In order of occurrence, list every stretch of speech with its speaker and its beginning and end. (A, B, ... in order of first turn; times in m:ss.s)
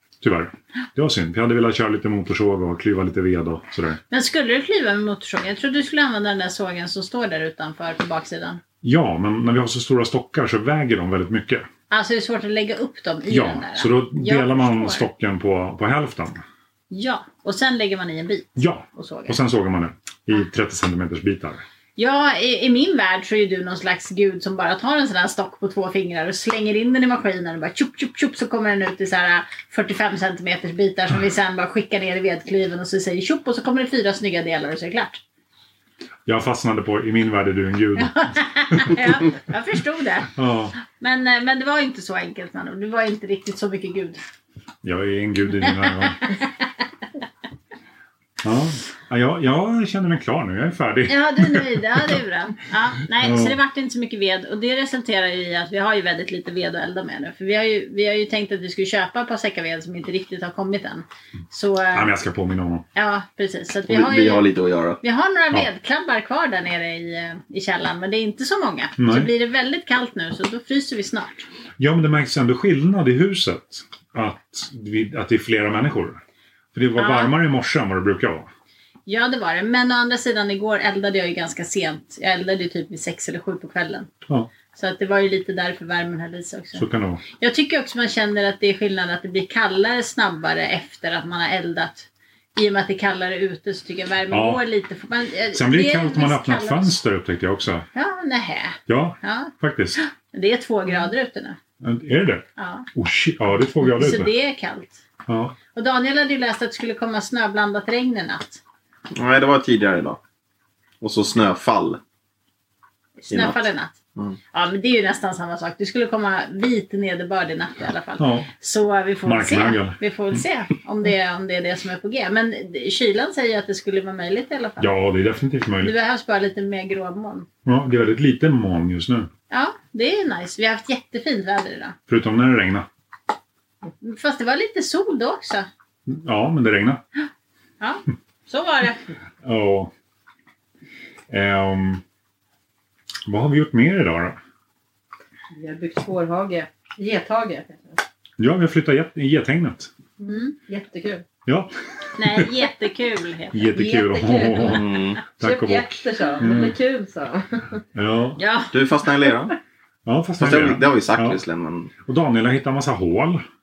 0:00.2-0:04.0 A
0:04.1-0:08.6 B
0:08.8-0:11.7 A
0:11.9-0:15.0 B
0:13.3-0:16.4 A
0:16.9-0:19.4 B
0:18.6-0:21.6 A
0:22.0-0:35.2 B
0:36.3-0:39.0 A
0:38.0-0:40.3 B
0:40.4-0:40.8 A
0:40.9-0:44.2 B
0:44.8-0:46.2 A
0:45.7-0:46.7 B
0:48.4-0:51.8 A
0:51.1-1:02.1 B
0:53.2-0:53.6 A
1:01.9-1:02.8 A
1:03.0-1:04.5 B
1:03.9-1:05.0 C
1:05.0-1:11.5 B
1:09.0-1:09.3 A
1:11.8-1:16.2 A
1:16.7-1:18.5 A
1:17.0-1:17.3 B
1:19.1-1:24.1 B
1:24.7-1:37.0 B
1:26.8-1:27.2 A
1:34.3-1:34.6 A
1:35.5-1:37.9 A
1:37.9-1:41.6 B
1:38.9-1:40.0 A
1:41.8-1:44.3 A
1:42.6-1:42.9 B
1:43.9-1:45.0 B
1:45.3-1:45.6 A
1:45.7-1:48.6 B
1:49.1-1:50.2 C
1:51.0-1:52.0 C
1:53.2-1:54.0 B
1:53.3-1:53.6 C
1:54.5-2:04.9 B
1:58.2-1:58.5 A
1:59.2-2:00.0 A
2:04.8-2:05.9 A
2:05.8-2:07.5 B
2:07.7-2:09.3 A
2:09.5-2:12.0 B
2:12.1-2:12.9 A
2:14.0-2:15.7 B
2:16.1-2:17.0 A
2:17.8-2:19.0 B
2:19.4-2:19.9 A
2:21.3-2:22.0 A
2:23.3-2:24.4 A
2:25.5-2:28.0 D
2:28.4-2:29.9 A
2:30.2-2:31.2 D
2:30.3-2:30.6 B
2:31.5-2:32.5 A
2:32.2-2:33.7 B
2:33.5-2:36.8 A
2:33.7-2:37.8 D
2:34.7-2:35.2 C
2:38.0-2:38.4 A
2:38.4-2:38.8 B
2:38.7-2:39.6 C
2:40.1-2:41.4 A
2:40.4-2:41.9 C
2:42.1-2:43.4 A